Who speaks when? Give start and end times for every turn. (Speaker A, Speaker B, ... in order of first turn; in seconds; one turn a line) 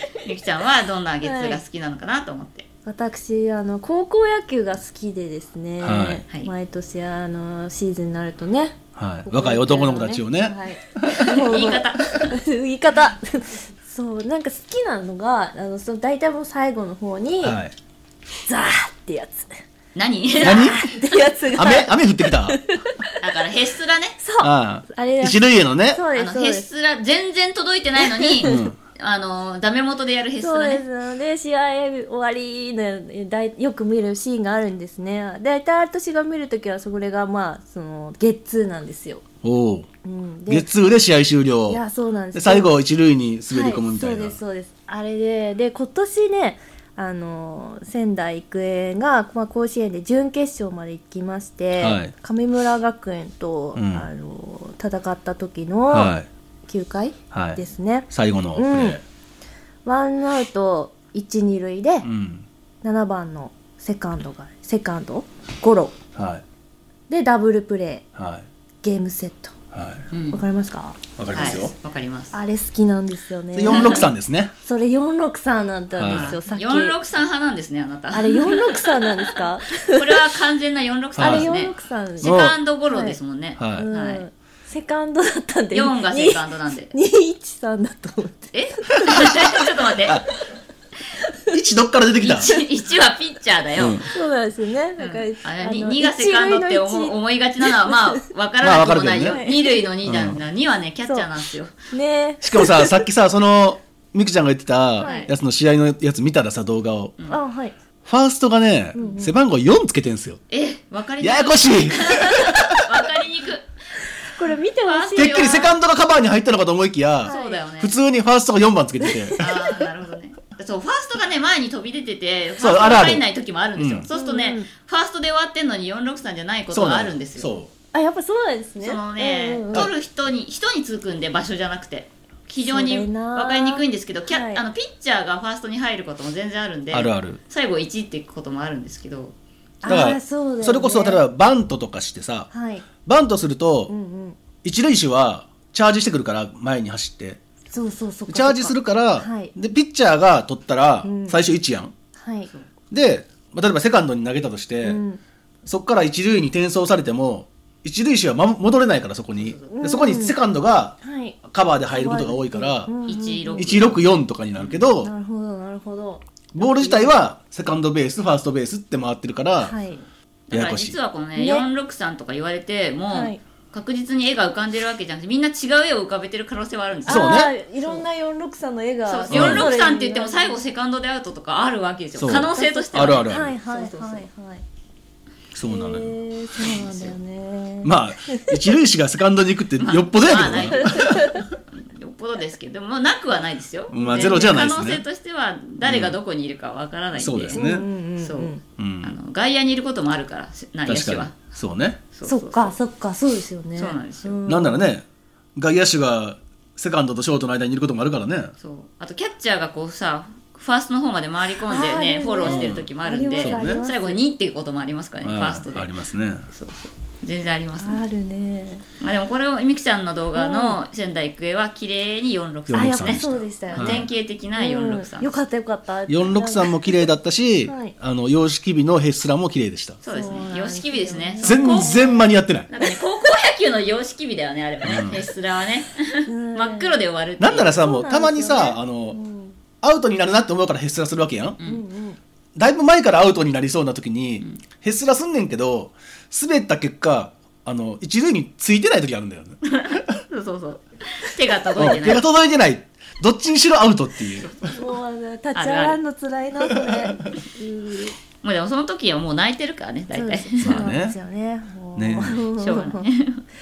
Speaker A: 0.2-2.6
Speaker B: 1.2-1.6
Speaker B: 2.9-17.6
Speaker C: 5.8-6.2
Speaker C: 8.9-11.3
Speaker A: 11.2-12.4
Speaker C: 17.4-17.7
Speaker B: 18.4-19.6
Speaker A: 19.9-20.7
Speaker B: 20.4-23.1
Speaker C: 20.4-20.9
Speaker C: 21.5-22.6
Speaker A: 23.2-24.2
Speaker B: 24.2-25.4
Speaker C: 24.4-26.1
Speaker B: 25.9-26.7
Speaker A: 26.1-30.9
Speaker B: 28.0-28.7
Speaker C: 28.4-28.7
Speaker B: 30.4-39.2
Speaker C: 39.4-39.9
Speaker B: 40.0-40.7
Speaker C: 40.5-41.8
Speaker B: 41.7-42.7
Speaker C: 42.3-44.4
Speaker B: 43.5-56.1
Speaker C: 51.7-52.1
Speaker C: 53.8-54.1
Speaker C: 55.9-56.3
Speaker B: 56.6-59.0
Speaker C: 57.3-59.0
Speaker B: 59.8-62.1
Speaker C: 62.0-62.5
Speaker B: 62.8-65.9
Speaker C: 66.2-66.4
Speaker B: 67.1-68.0
Speaker C: 68.2-68.5
Speaker B: 68.8-69.5
Speaker C: 69.7-70.1
Speaker A: 70.1-70.4
Speaker B: 70.3-71.6
Speaker C: 71.2-71.7
Speaker A: 71.3-72.4
Speaker B: 72.3-74.0
Speaker C: 73.5-74.5
Speaker A: 73.6-74.0
Speaker B: 74.6-77.0
Speaker C: 75.9-76.4
Speaker A: 76.1-84.2
Speaker B: 78.1-80.2
Speaker C: 81.1-81.5
Speaker B: 81.2-83.2
Speaker C: 82.2-82.6
Speaker C: 83.6-83.9
Speaker B: 83.7-89.0
Speaker A: 85.7-86.9
Speaker A: 88.5-90.2
Speaker C: 91.5-92.5
Speaker A: 92.2-94.1
Speaker C: 93.8-94.0
Speaker B: 94.1-98.2
Speaker A: 95.0-101.7
Speaker C: 98.6-99.4
Speaker B: 99.2-99.8
Speaker C: 100.0-100.4
Speaker B: 101.0-101.3
Speaker B: 101.9-103.0
Speaker C: 102.4-107.1
Speaker B: 105.0-105.3
Speaker A: 105.0-105.3
Speaker B: 107.3-107.8
Speaker C: 108.0-110.4
Speaker B: 108.9-109.3
Speaker A: 109.0-109.2
Speaker A: 110.5-113.7
Speaker C: 111.2-112.9
Speaker B: 114.2-115.7
Speaker A: 114.8-115.7
Speaker C: 115.2-119.5
Speaker B: 117.2-117.6
Speaker A: 117.2-118.0
Speaker B: 119.0-119.4
Speaker A: 119.4-127.5
Speaker C: 122.6-123.2
Speaker C: 123.8-124.1
Speaker B: 124.1-124.7
Speaker C: 126.7-127.7
Speaker B: 127.9-129.9
Speaker A: 128.8-139.3
Speaker B: 132.6-134.6
Speaker C: 136.9-137.4
Speaker B: 139.8-141.2
Speaker C: 139.8-142.5
Speaker B: 142.5-142.8
Speaker C: 143.0-143.9
Speaker B: 143.9-144.4
Speaker C: 144.6-147.4
Speaker B: 147.7-149.5
Speaker C: 148.3-151.9
Speaker B: 151.0-151.4
Speaker B: 152.2-152.5
Speaker C: 152.9-155.0
Speaker B: 154.8-155.2
Speaker C: 155.7-162.9
Speaker A: 159.3-160.0
Speaker B: 159.7-160.4
Speaker B: 161.0-161.4
Speaker B: 161.9-163.8
Speaker A: 163.1-164.0
Speaker C: 163.5-165.1
Speaker A: 164.6-164.9
Speaker B: 165.0-167.2
Speaker C: 166.5-169.7
Speaker B: 169.6-170.0
Speaker A: 170.5-178.1
Speaker C: 170.5-171.0
Speaker B: 171.3-171.7
Speaker B: 173.1-173.4
Speaker B: 177.0-180.6
Speaker C: 177.1-177.5
Speaker A: 179.0-184.3
Speaker C: 179.3-179.7
Speaker C: 182.2-183.6
Speaker B: 182.5-184.6
Speaker C: 185.5-186.1
Speaker B: 185.7-188.6
Speaker A: 186.6-187.2
Speaker C: 187.8-191.3
Speaker A: 189.8-201.5
Speaker B: 190.5-191.4
Speaker C: 193.9-195.0
Speaker B: 194.1-194.6
Speaker C: 195.8-196.2
Speaker C: 197.1-197.9
Speaker B: 197.5-198.6
Speaker C: 198.8-199.1
Speaker C: 200.9-202.0
Speaker A: 202.1-202.8
Speaker B: 202.2-204.9
Speaker A: 203.7-204.4
Speaker C: 204.4-205.0
Speaker C: 205.6-208.5
Speaker A: 208.6-218.0
Speaker B: 211.7-214.2
Speaker C: 212.4-212.9
Speaker C: 213.4-213.8
Speaker C: 215.2-216.5
Speaker B: 217.8-218.8
Speaker A: 219.0-225.3
Speaker B: 220.3-220.8
Speaker C: 222.7-224.1
Speaker B: 222.7-227.1
Speaker C: 226.1-230.0
Speaker B: 227.6-227.9
Speaker A: 230.0-237.8
Speaker B: 230.1-232.2
Speaker C: 231.4-232.7
Speaker C: 234.8-235.2
Speaker B: 236.3-237.0
Speaker C: 237.4-239.2
Speaker B: 237.7-239.6
Speaker C: 239.8-241.6
Speaker B: 241.6-242.2
Speaker C: 242.6-250.0
Speaker A: 249.7-252.3
Speaker C: 251.8-254.7
Speaker A: 254.4-254.8
Speaker B: 254.7-258.1
Speaker A: 255.5-256.0
Speaker C: 256.7-256.9
Speaker A: 258.4-260.9
Speaker B: 260.1-263.1
Speaker C: 260.6-261.1
Speaker C: 261.9-262.4
Speaker A: 262.4-263.4